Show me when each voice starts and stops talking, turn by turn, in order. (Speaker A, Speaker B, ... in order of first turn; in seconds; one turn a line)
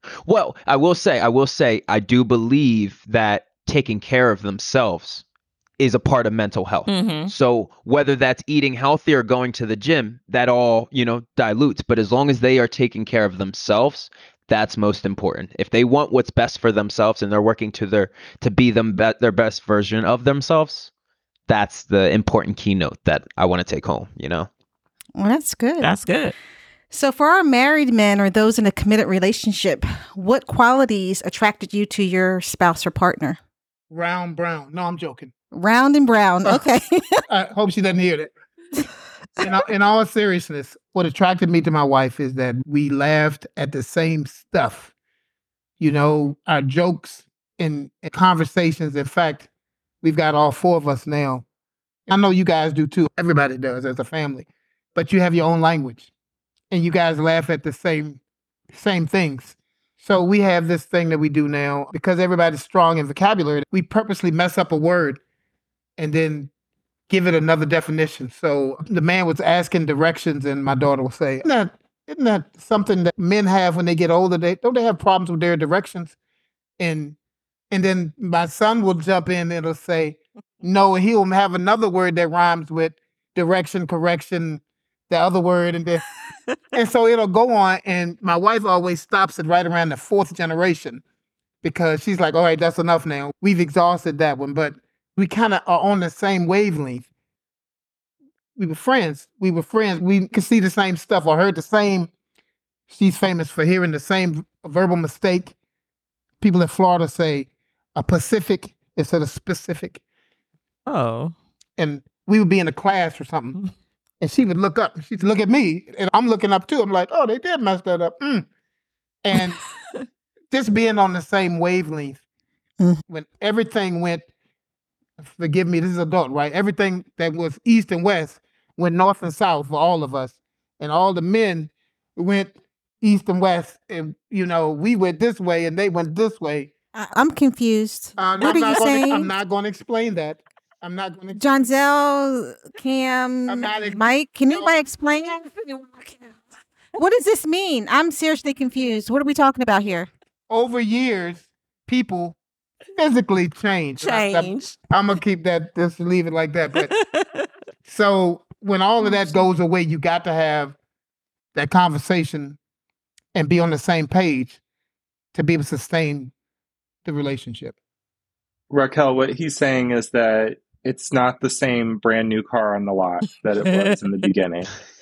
Speaker A: 0.3-5.2
Speaker A: 5.8-20.9
Speaker B: 6.9-7.3
Speaker A: 21.5-24.5
Speaker C: 25.2-26.0
Speaker B: 25.8-26.3
Speaker C: 26.9-33.4
Speaker D: 33.9-35.3
Speaker C: 35.5-37.2
Speaker D: 37.3-38.3
Speaker D: 39.4-44.9
Speaker D: 45.8-49.5
Speaker D: 50.0-51.5
Speaker D: 52.1-56.1
Speaker D: 56.7-58.2
Speaker D: 58.7-65.2
Speaker D: 66.0-66.5
Speaker D: 67.1-76.2
Speaker D: 76.8-77.2
Speaker D: 77.7-86.0
Speaker D: 86.7-91.0
Speaker D: 91.6-97.1
Speaker D: 98.6-102.1
Speaker D: 102.9-105.5
Speaker D: 106.4-110.0
Speaker B: 110.9-111.3
Speaker D: 111.8-113.6
Speaker D: 114.2-118.5
Speaker D: 119.2-119.6
Speaker D: 120.5-122.2
Speaker D: 123.1-124.3
Speaker D: 125.2-136.7
Speaker C: 136.9-139.3
Speaker D: 138.2-141.4
Speaker C: 141.3-145.4
Speaker D: 143.5-144.7
Speaker B: 145.3-146.4
Speaker C: 147.0-150.1
Speaker D: 150.5-152.4
Speaker D: 153.0-156.9
Speaker B: 154.0-154.8
Speaker B: 156.8-157.5
Speaker D: 157.9-160.8
Speaker D: 161.6-162.6
Speaker D: 163.3-164.6
Speaker D: 165.3-166.3
Speaker D: 167.1-167.8
Speaker E: 168.7-174.7
Speaker B: 173.7-173.9